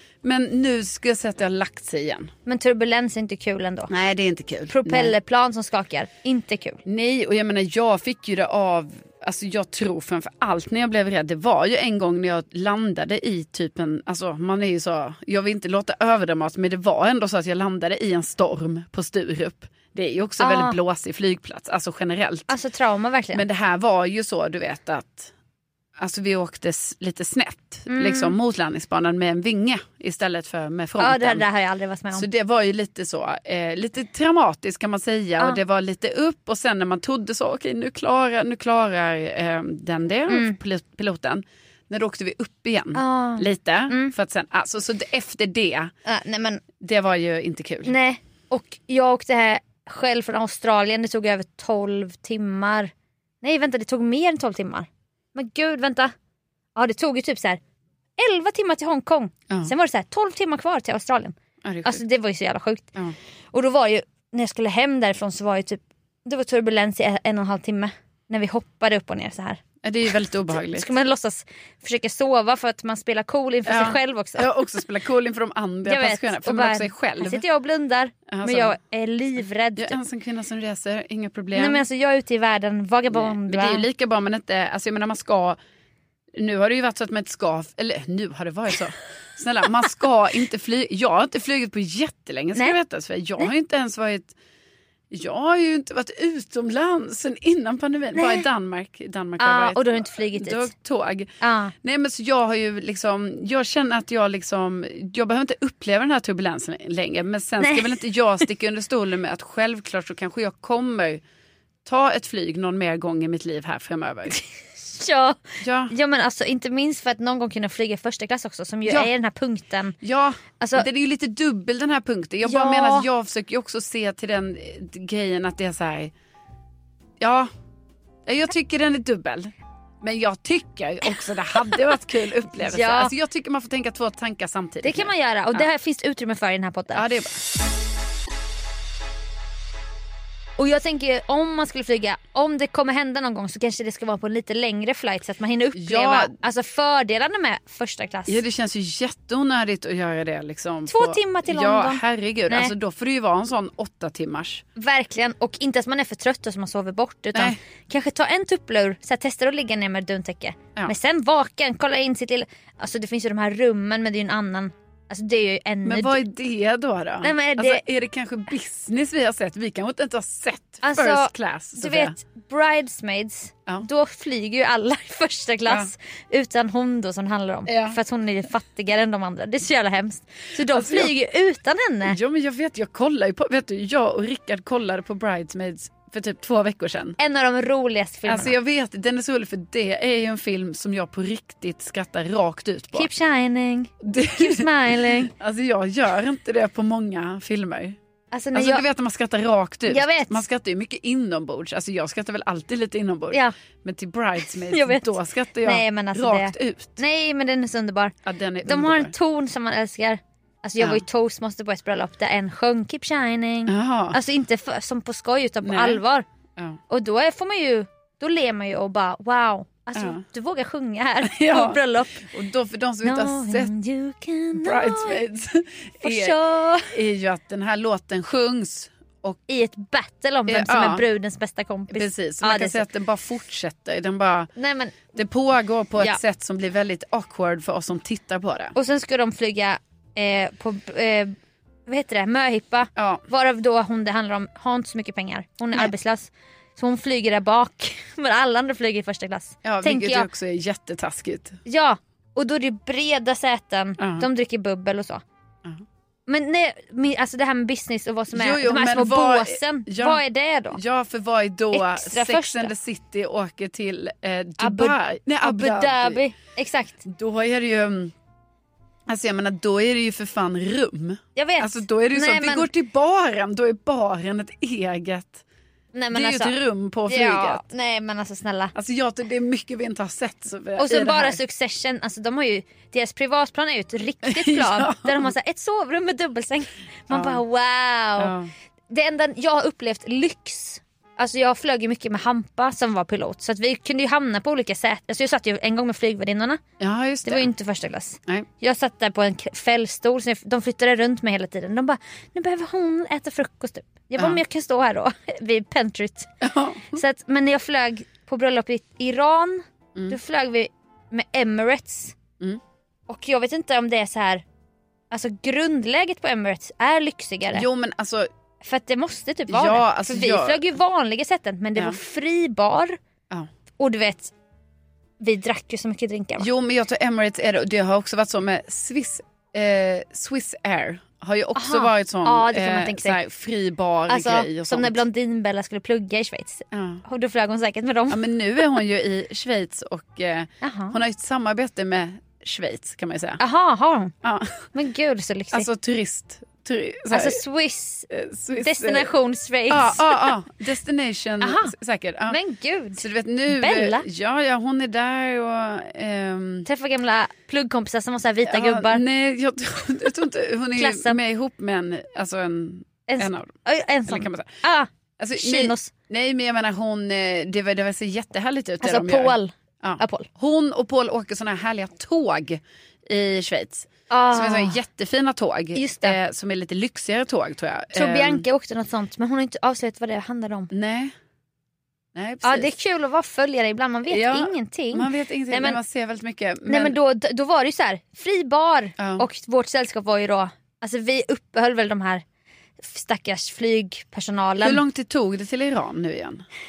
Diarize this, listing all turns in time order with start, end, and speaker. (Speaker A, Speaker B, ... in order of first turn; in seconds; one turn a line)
Speaker A: 0.2-2.3
Speaker B: 2.5-3.9
Speaker A: 3.9-5.2
Speaker B: 4.7-6.8
Speaker A: 6.9-22.5
Speaker B: 20.4-20.8
Speaker B: 22.5-23.4
Speaker A: 23.3-25.3
Speaker A: 26.0-31.4
Speaker B: 27.9-28.4
Speaker B: 31.0-32.3
Speaker A: 32.1-45.9
Speaker B: 40.3-40.5
Speaker B: 42.9-44.1
Speaker B: 46.1-46.6
Speaker A: 46.8-47.9
Speaker B: 47.9-56.1
Speaker B: 56.8-57.6
Speaker B: 58.2-62.9
Speaker A: 61.6-62.0
Speaker B: 63.5-69.6
Speaker A: 69.8-70.9
Speaker B: 70.5-74.5
Speaker A: 73.7-77.4
Speaker B: 75.8-80.0
Speaker A: 78.3-78.8
Speaker A: 79.8-81.8
Speaker B: 81.5-83.9
Speaker A: 83.1-85.6
Speaker A: 86.4-94.3
Speaker A: 95.1-101.3
Speaker B: 98.2-98.4
Speaker B: 99.4-100.7
Speaker B: 101.4-101.7
Speaker A: 101.8-111.2
Speaker B: 107.6-108.0
Speaker A: 111.9-114.4
Speaker B: 114.3-120.0
Speaker A: 115.6-115.9
Speaker A: 118.9-119.1
Speaker A: 120.0-126.1
Speaker B: 120.6-120.9
Speaker B: 122.4-123.1
Speaker A: 127.2-127.5
Speaker A: 128.3-135.7
Speaker B: 132.6-133.1
Speaker B: 134.8-137.1
Speaker A: 136.9-137.4
Speaker B: 140.6-148.4
Speaker A: 145.8-146.3
Speaker A: 148.3-154.6
Speaker B: 150.9-152.7
Speaker B: 154.8-166.2
Speaker A: 165.9-172.2
Speaker B: 167.2-167.8
Speaker B: 170.8-182.2
Speaker A: 177.7-178.0
Speaker A: 180.7-181.1
Speaker A: 182.1-187.2
Speaker B: 187.2-188.6
Speaker A: 188.3-193.1
Speaker B: 192.9-195.3
Speaker A: 194.0-198.0
Speaker B: 198.3-198.8
Speaker A: 198.5-207.0
Speaker B: 199.9-200.4
Speaker B: 204.6-208.1
Speaker A: 208.2-209.1
Speaker B: 208.7-216.2
Speaker A: 210.8-211.0
Speaker A: 213.7-214.2
Speaker A: 215.6-216.0
Speaker B: 216.9-222.2
Speaker A: 220.0-220.2
Speaker A: 221.3-223.7
Speaker B: 223.0-225.2
Speaker A: 224.5-229.4
Speaker B: 226.0-226.9
Speaker B: 229.5-232.8
Speaker A: 230.5-231.1
Speaker A: 231.9-234.5
Speaker B: 234.6-235.0
Speaker A: 235.1-238.8
Speaker B: 238.8-241.3
Speaker B: 241.9-250.3
Speaker A: 243.0-243.3
Speaker A: 249.6-251.6
Speaker B: 251.7-255.2
Speaker A: 254.0-254.3
Speaker B: 256.3-260.8
Speaker A: 258.3-266.2
Speaker B: 261.7-262.7
Speaker B: 264.6-267.0
Speaker A: 267.1-268.1
Speaker A: 269.1-275.4
Speaker B: 271.4-272.7
Speaker B: 275.9-276.6
Speaker A: 276.1-277.7
Speaker B: 277.1-278.7
Speaker A: 278.8-281.4
Speaker B: 280.8-288.3
Speaker A: 284.3-285.3
Speaker A: 287.1-287.4
Speaker A: 288.2-288.5
Speaker B: 288.9-296.6
Speaker A: 296.8-297.5
Speaker B: 297.2-306.3
Speaker A: 306.4-307.0
Speaker B: 306.9-312.2
Speaker B: 313.1-314.4
Speaker B: 315.1-317.7
Speaker A: 317.5-318.3
Speaker B: 318.6-323.0
Speaker A: 319.5-320.7
Speaker B: 323.8-324.3
Speaker B: 325.2-326.5
Speaker A: 326.4-335.0
Speaker B: 331.6-333.2
Speaker B: 334.1-338.2
Speaker A: 336.7-337.0
Speaker A: 338.1-343.4
Speaker B: 340.6-341.0
Speaker B: 343.4-344.1
Speaker A: 344.2-344.6
Speaker B: 344.7-345.7
Speaker A: 345.5-347.4
Speaker B: 347.1-348.1
Speaker A: 348.1-349.1
Speaker B: 348.6-350.3
Speaker A: 349.7-352.4
Speaker B: 351.4-351.7
Speaker B: 352.3-354.1
Speaker A: 353.0-356.7
Speaker B: 356.6-359.0
Speaker A: 358.5-364.5
Speaker B: 360.8-361.2
Speaker B: 363.1-365.9
Speaker A: 365.2-378.4
Speaker B: 368.8-370.3
Speaker B: 374.1-374.8
Speaker B: 375.8-376.2
Speaker B: 377.9-380.7
Speaker A: 380.7-381.1
Speaker A: 382.1-382.7
Speaker B: 382.4-385.8
Speaker A: 384.1-387.0
Speaker B: 386.7-392.2
Speaker A: 389.0-389.2
Speaker B: 392.8-394.8
Speaker A: 394.6-396.4